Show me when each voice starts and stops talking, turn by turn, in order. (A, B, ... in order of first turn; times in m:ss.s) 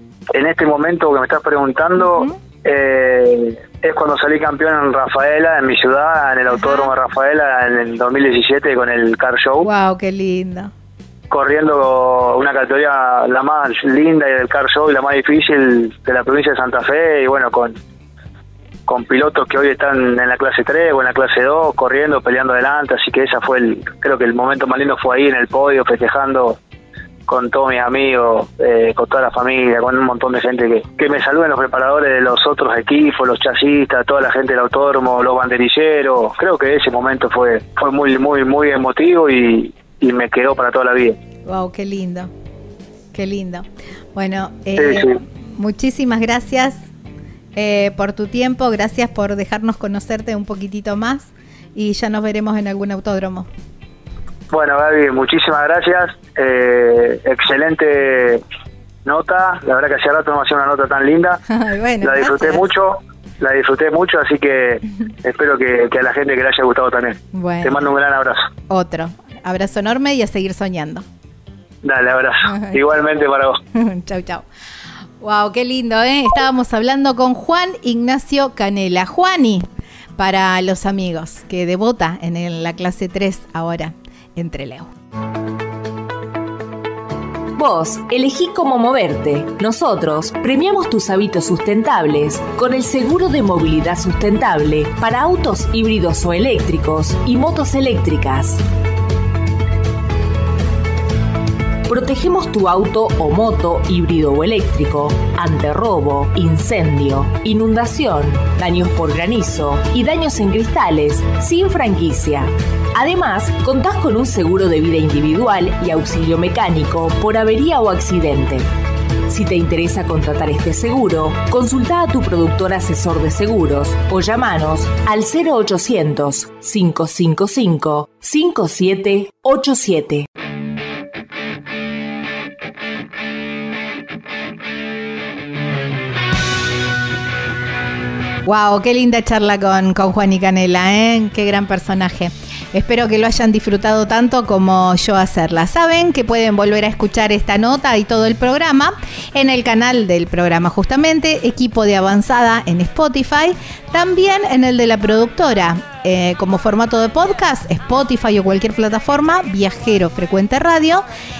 0:00.3-0:09.7 A
0:02.0-0:02.4 B
0:06.5-0:06.9 B
0:09.6-0:10.7 B
0:11.3-0:17.7 A
0:18.9-0:26.6 A
0:27.3-0:41.2 A
0:41.4-0:42.3 B
0:43.1-0:46.8 B
0:44.8-0:45.2 A
0:47.5-0:53.5 B
0:54.5-0:58.4 A
0:59.0-1:01.4 A
1:01.5-1:02.6 B
1:02.0-1:08.5 A
1:07.3-1:07.9 B
1:08.7-1:11.0 B
1:11.8-1:13.6 A
1:12.5-1:12.8 B
1:13.7-1:14.4 B
1:15.2-1:19.6 B
1:20.2-1:24.9 B
1:27.6-1:38.6 C
1:41.9-1:58.7 C
1:59.3-2:10.3 C
2:18.4-2:41.0 B